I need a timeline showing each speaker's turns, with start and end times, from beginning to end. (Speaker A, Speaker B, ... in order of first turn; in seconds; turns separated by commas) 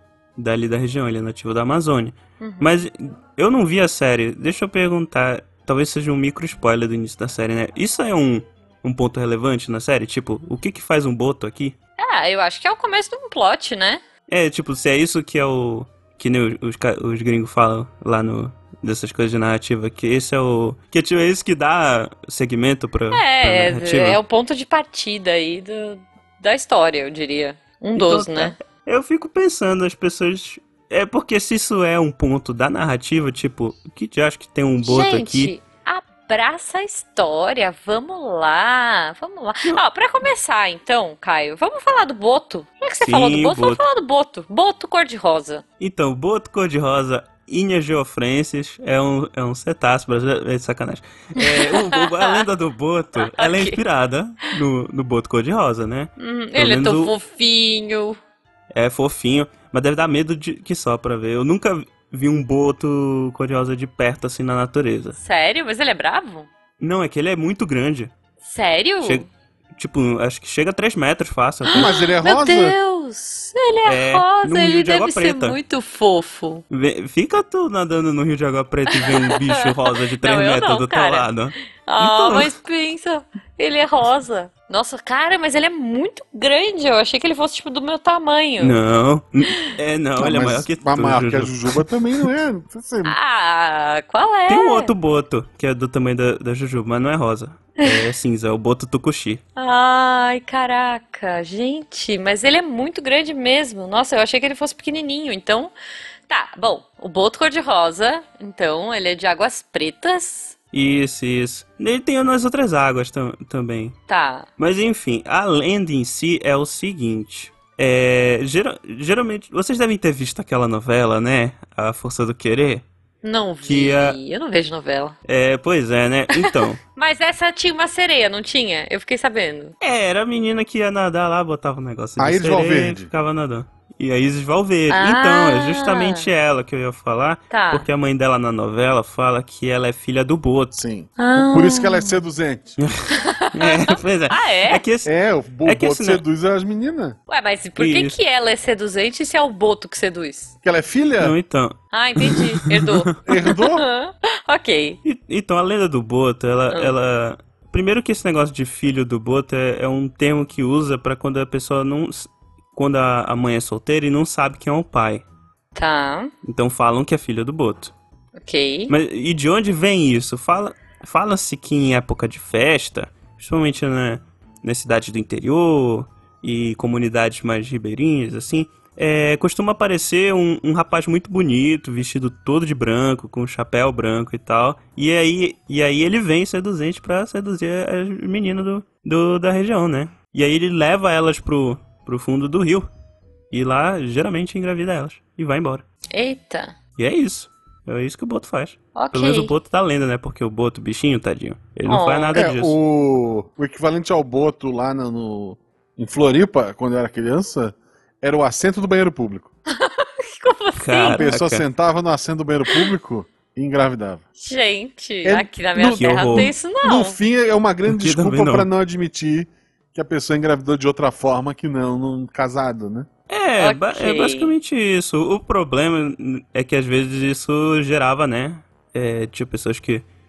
Speaker A: 0.4-11.8, Speaker B: 2.4-2.7, Speaker B: 12.0-14.0, Speaker A: 14.3-24.2, Speaker B: 23.1-28.6, Speaker A: 27.9-35.5, Speaker B: 34.8-45.6, Speaker A: 43.0-43.8, Speaker A: 45.8-57.1, Speaker B: 51.4-52.4, Speaker B: 53.2-53.8, Speaker B: 56.2-58.2, Speaker A: 58.7-65.2, Speaker B: 65.2-66.5, Speaker A: 66.8-68.1, Speaker B: 68.4-69.3, Speaker A: 69.0-72.0, Speaker C: 71.7-72.8, Speaker B: 71.7-76.6, Speaker A: 73.8-75.6, Speaker A: 76.7-82.5, Speaker B: 78.9-79.7, Speaker B: 80.2-81.3, Speaker B: 81.9-88.8, Speaker A: 88.6-91.8, Speaker C: 90.2-93.2, Speaker B: 93.0-94.9, Speaker A: 94.5-99.4, Speaker B: 99.5-105.7, Speaker B: 106.3-110.5, Speaker A: 110.7-114.0, Speaker B: 114.1-114.5, Speaker A: 114.6-122.8, Speaker B: 123.2-125.2, Speaker A: 123.6-124.2, Speaker A: 125.2-126.8, Speaker B: 126.3-129.7, Speaker A: 129.8-140.8, Speaker C: 132.2-133.1, Speaker B: 134.9-136.2, Speaker B: 137.5-137.9, Speaker C: 140.7-142.8, Speaker B: 141.2-142.2, Speaker A: 142.8-145.1, Speaker B: 143.1-144.8, Speaker C: 145.0-147.2, Speaker A: 145.6-146.2, Speaker B: 147.3-150.5, Speaker A: 147.8-148.1, Speaker C: 150.6-151.3, Speaker A: 151.2-153.2, Speaker B: 151.9-155.0, Speaker C: 153.2-153.8, Speaker A: 155.0-165.2, Speaker B: 165.7-166.3, Speaker A: 166.4-167.9, Speaker B: 168.4-168.9, Speaker A: 168.9-192.9, Speaker A: 193.5-195.8, Speaker B: 196.1-196.7, Speaker A: 197.0-202.7, Speaker B: 198.9-199.5, Speaker B: 201.9-202.3, Speaker C: 202.3-209.5, Speaker B: 209.7-211.3, Speaker A: 210.8-211.6, Speaker C: 211.2-214.2, Speaker B: 214.4-217.2, Speaker C: 215.2-223.1, Speaker A: 215.9-216.5, Speaker A: 217.9-218.7, Speaker A: 223.3-230.0, Speaker B: 223.6-224.5